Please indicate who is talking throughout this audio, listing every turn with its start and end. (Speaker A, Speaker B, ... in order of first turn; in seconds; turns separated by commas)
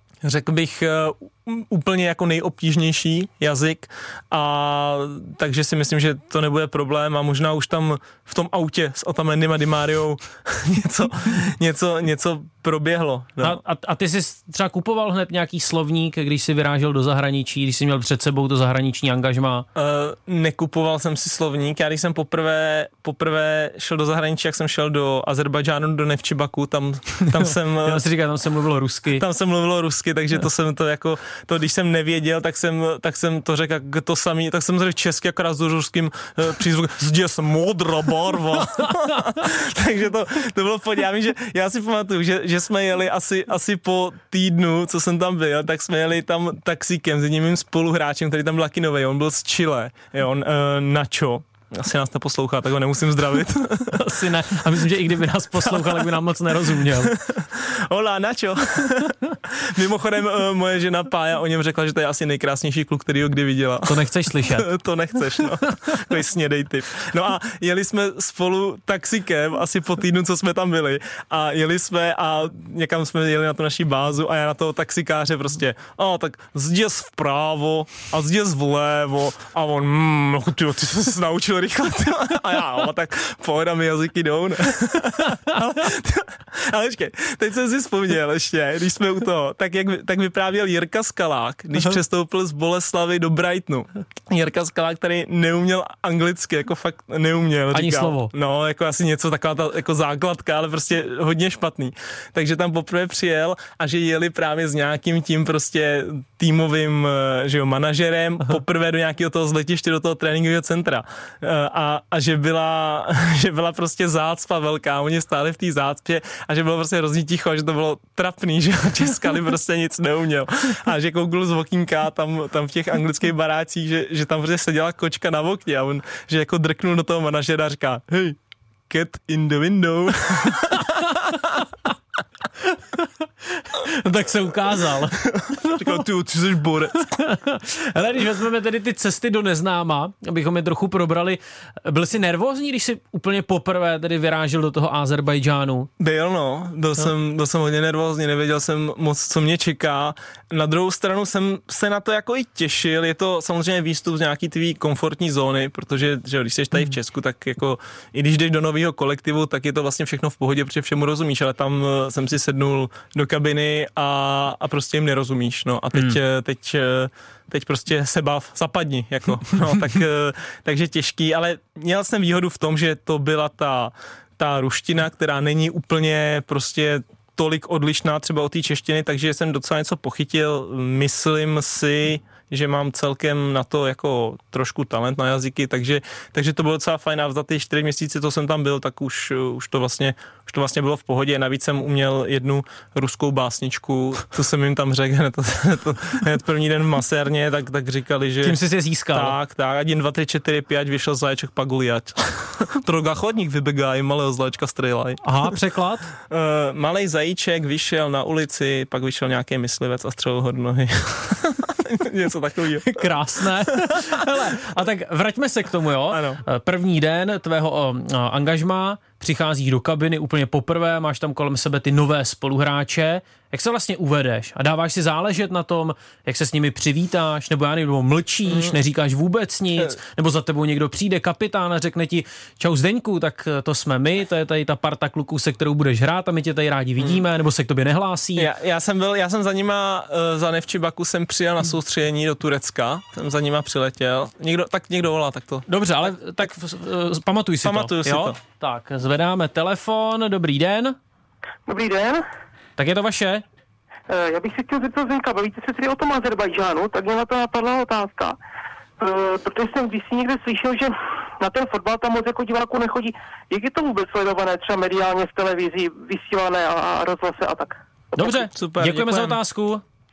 Speaker A: 0.2-13.6, Speaker B: 13.4-19.6, Speaker A: 19.7-28.0, Speaker B: 27.4-29.2, Speaker A: 29.2-54.0, Speaker B: 53.9-57.1, Speaker A: 55.6-56.1, Speaker A: 56.6-131.1, Speaker B: 63.9-64.7, Speaker B: 97.7-98.3, Speaker B: 132.9-135.9, Speaker A: 135.5-137.0, Speaker B: 137.0-145.9, Speaker A: 146.0-198.6, Speaker B: 198.4-199.3, Speaker A: 199.1-205.2, Speaker B: 205.2-206.1, Speaker A: 206.2-213.1, Speaker B: 212.9-238.5, Speaker A: 213.7-214.1, Speaker A: 216.1-216.4, Speaker A: 228.5-228.7, Speaker A: 238.3-245.7, Speaker B: 245.7-250.9, Speaker A: 247.6-248.4, Speaker C: 251.7-252.2, Speaker B: 252.8-253.4, Speaker C: 254.1-258.4, Speaker C: 259.0-267.8, Speaker B: 268.1-269.8, Speaker A: 268.2-269.4